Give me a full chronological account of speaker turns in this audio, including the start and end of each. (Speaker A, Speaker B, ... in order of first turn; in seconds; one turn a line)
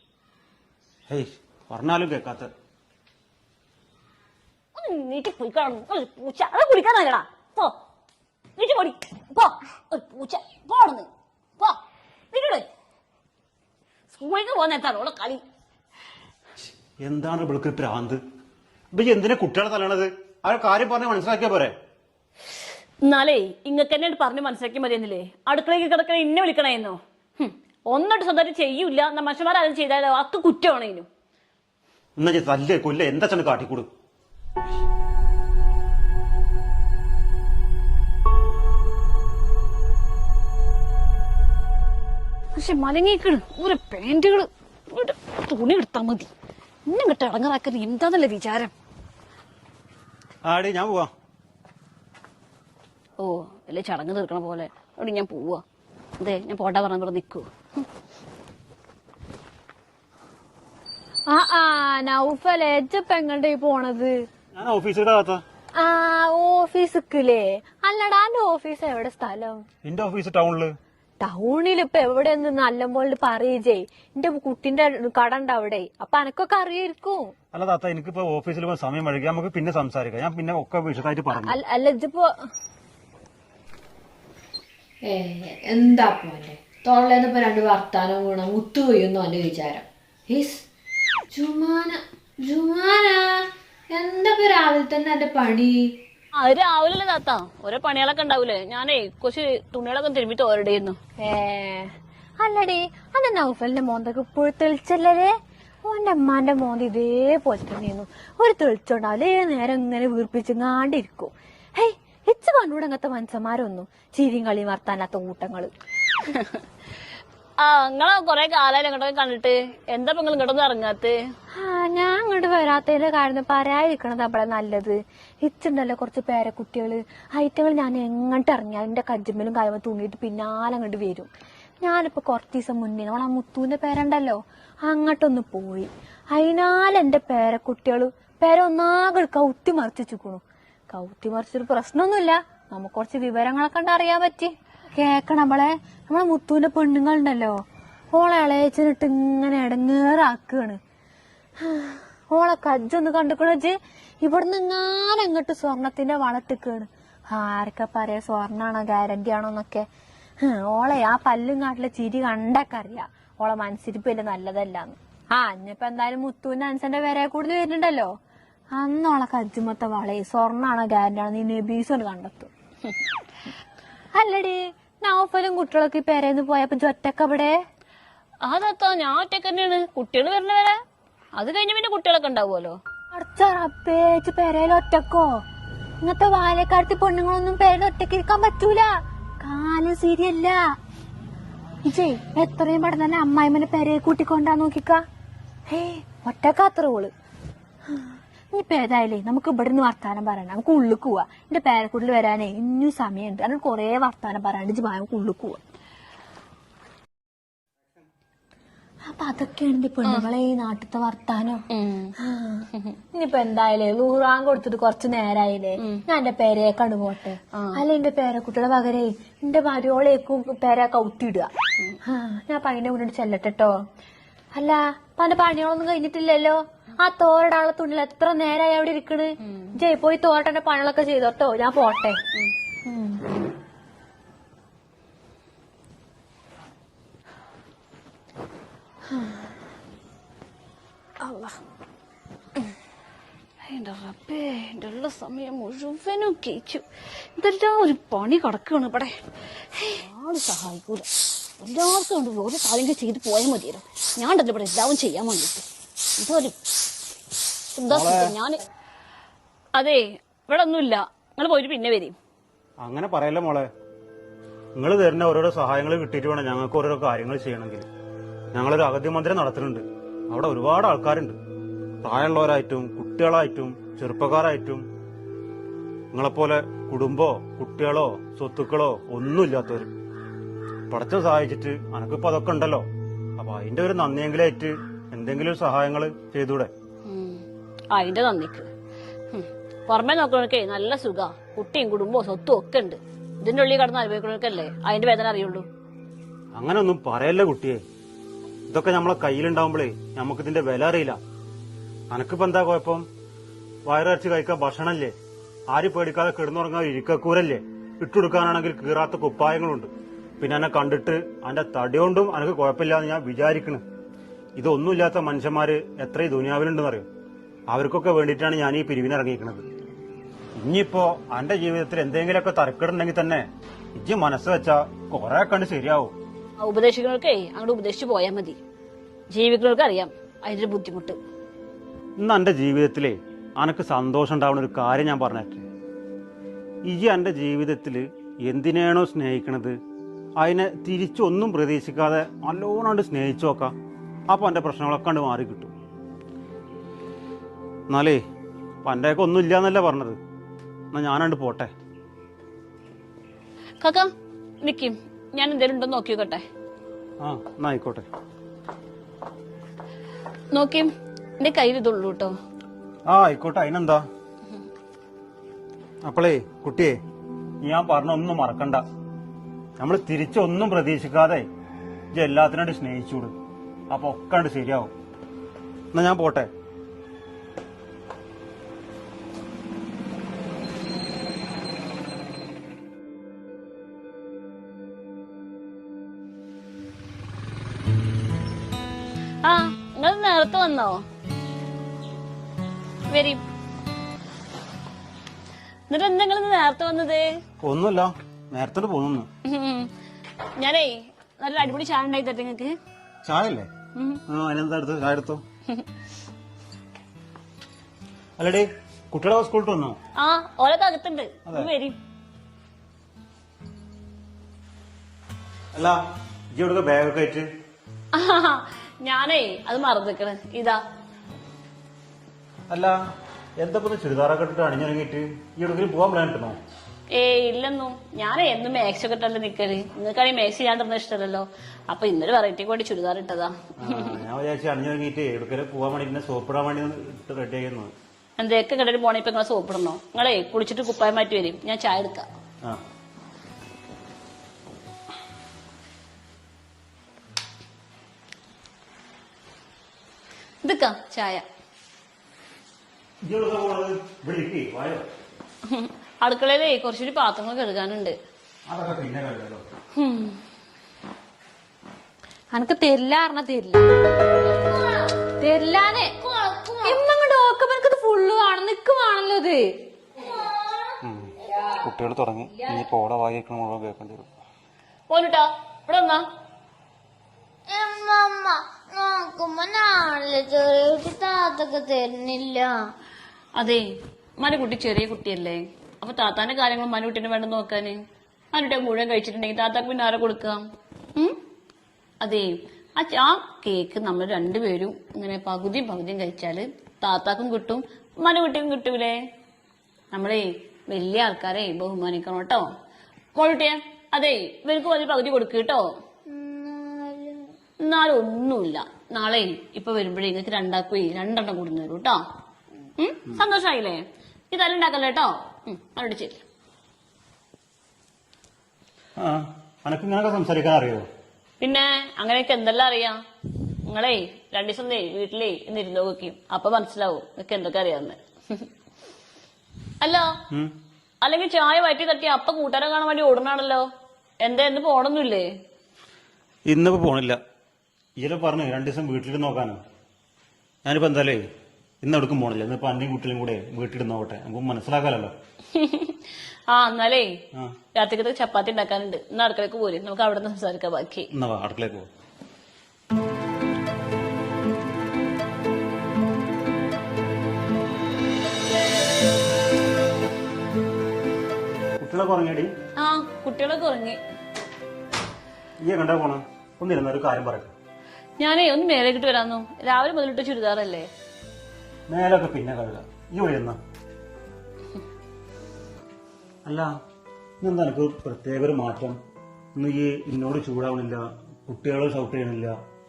Speaker A: 1.1-2.5
Speaker B: 4.7-7.7
Speaker B: 8.6-11.8
Speaker B: 12.3-12.7
Speaker B: 14.1-15.4
Speaker A: 17.0-18.2
Speaker A: 18.9-21.7
Speaker B: 23.0-31.1
Speaker A: 32.2-33.9
Speaker B: 42.5-46.3
Speaker B: 46.9-48.7
Speaker A: 50.4-51.1
Speaker B: 53.2-55.6
Speaker B: 56.2-57.5
Speaker C: 61.3-64.2
Speaker A: 64.5-65.4
Speaker C: 65.8-69.6
Speaker A: 69.8-70.7
Speaker C: 71.2-77.3
Speaker A: 77.5-81.6
Speaker C: 81.4-82.5
Speaker C: 85.0-90.7
Speaker C: 91.3-95.9
Speaker B: 96.3-101.0
Speaker C: 101.2-115.7
Speaker B: 116.2-116.6
Speaker B: 117.6-121.1
Speaker C: 121.5-131.3
Speaker C: 131.8-147.6
Speaker C: 148.1-150.8
Speaker C: 151.6-159.9
Speaker C: 160.4-168.1
Speaker C: 168.7-172.5
Speaker C: 174.1-177.6
Speaker B: 178.4-180.8
Speaker B: 181.3-182.8
Speaker C: 183.1-185.4
Speaker C: 186.0-190.7
Speaker C: 191.8-195.0
Speaker C: 195.7-197.1
Speaker C: 197.9-205.6
Speaker C: 209.1-211.6
Speaker B: 211.7-212.1
Speaker C: 212.2-221.5
Speaker B: 215.8-216.0
Speaker B: 217.5-217.8
Speaker C: 222.0-223.8
Speaker C: 224.5-232.2
Speaker B: 229.4-229.8
Speaker C: 232.8-233.3
Speaker C: 239.1-239.5
Speaker B: 241.2-241.6
Speaker B: 243.6-246.8
Speaker B: 247.3-251.1
Speaker B: 251.6-255.6
Speaker B: 256.2-256.6
Speaker B: 257.7-258.6
Speaker A: 257.9-258.3
Speaker B: 259.7-262.1
Speaker A: 262.8-263.7
Speaker A: 264.8-267.9
Speaker A: 268.5-271.4
Speaker A: 272.0-274.9
Speaker A: 276.1-279.9
Speaker A: 280.9-286.7
Speaker B: 287.0-288.7
Speaker B: 289.3-295.6
Speaker A: 296.5-297.8
Speaker A: 298.7-301.2
Speaker A: 302.1-303.1
Speaker A: 303.9-305.1
Speaker A: 305.7-313.8
Speaker A: 314.6-317.1
Speaker A: 317.7-319.6
Speaker A: 320.6-326.1
Speaker B: 326.6-328.6
Speaker B: 329.3-331.2
Speaker A: 332.2-335.7
Speaker A: 336.8-339.8
Speaker A: 340.4-343.7
Speaker A: 344.3-345.7
Speaker A: 347.9-348.2
Speaker A: 348.8-350.2
Speaker A: 350.9-351.7
Speaker B: 353.8-354.1
Speaker B: 354.6-356.4
Speaker A: 357.2-358.1
Speaker B: 360.5-362.3
Speaker A: 363.1-364.0
Speaker A: 366.0-367.0
Speaker A: 367.6-368.8
Speaker A: 369.8-371.5
Speaker A: 372.1-373.3
Speaker A: 373.9-374.9
Speaker A: 375.9-376.5
Speaker B: 389.4-391.0
Speaker B: 393.1-393.4
Speaker B: 395.9-397.3
Speaker A: 397.6-399.3
Speaker B: 399.4-399.9
Speaker B: 400.6-402.7
Speaker A: 403.2-403.7
Speaker B: 403.9-404.2
Speaker A: 404.3-405.4
Speaker A: 408.4-410.0
Speaker B: 410.1-412.0
Speaker A: 411.4-411.7
Speaker A: 415.7-416.0
Speaker A: 416.5-417.5
Speaker B: 418.1-420.8
Speaker A: 422.7-423.0
Speaker A: 423.6-426.6
Speaker B: 427.1-434.2
Speaker A: 433.8-437.9
Speaker B: 438.4-442.3
Speaker B: 450.6-451.4
Speaker A: 453.2-455.1
Speaker B: 455.7-458.1
Speaker A: 458.7-459.6
Speaker B: 460.0-460.4
Speaker C: 462.5-463.9
Speaker D: 464.7-465.0
Speaker C: 465.4-469.6
Speaker D: 466.3-466.9
Speaker D: 470.3-470.9
Speaker A: 471.0-474.3
Speaker B: 475.1-476.2
Speaker D: 477.7-482.9
Speaker B: 483.6-483.8
Speaker B: 484.4-488.0
Speaker B: 488.5-490.6
Speaker B: 492.2-499.2
Speaker B: 500.1-502.7
Speaker B: 503.3-505.9
Speaker D: 506.3-507.5
Speaker B: 507.8-512.2
Speaker B: 513.0-514.0
Speaker B: 514.5-516.4
Speaker A: 519.2-521.1
Speaker B: 521.6-523.2
Speaker B: 523.9-528.7
Speaker B: 530.0-530.3
Speaker B: 531.2-533.9
Speaker B: 534.4-535.5
Speaker A: 536.7-537.4
Speaker A: 538.2-539.8
Speaker A: 540.8-541.4
Speaker A: 542.0-545.3
Speaker B: 545.7-547.3
Speaker B: 548.0-551.3
Speaker A: 551.3-552.1
Speaker A: 562.0-562.7
Speaker B: 563.0-564.2
Speaker A: 565.8-567.7
Speaker B: 568.4-571.1
Speaker A: 572.1-573.8
Speaker A: 576.6-576.9
Speaker A: 577.6-579.2
Speaker A: 579.7-582.8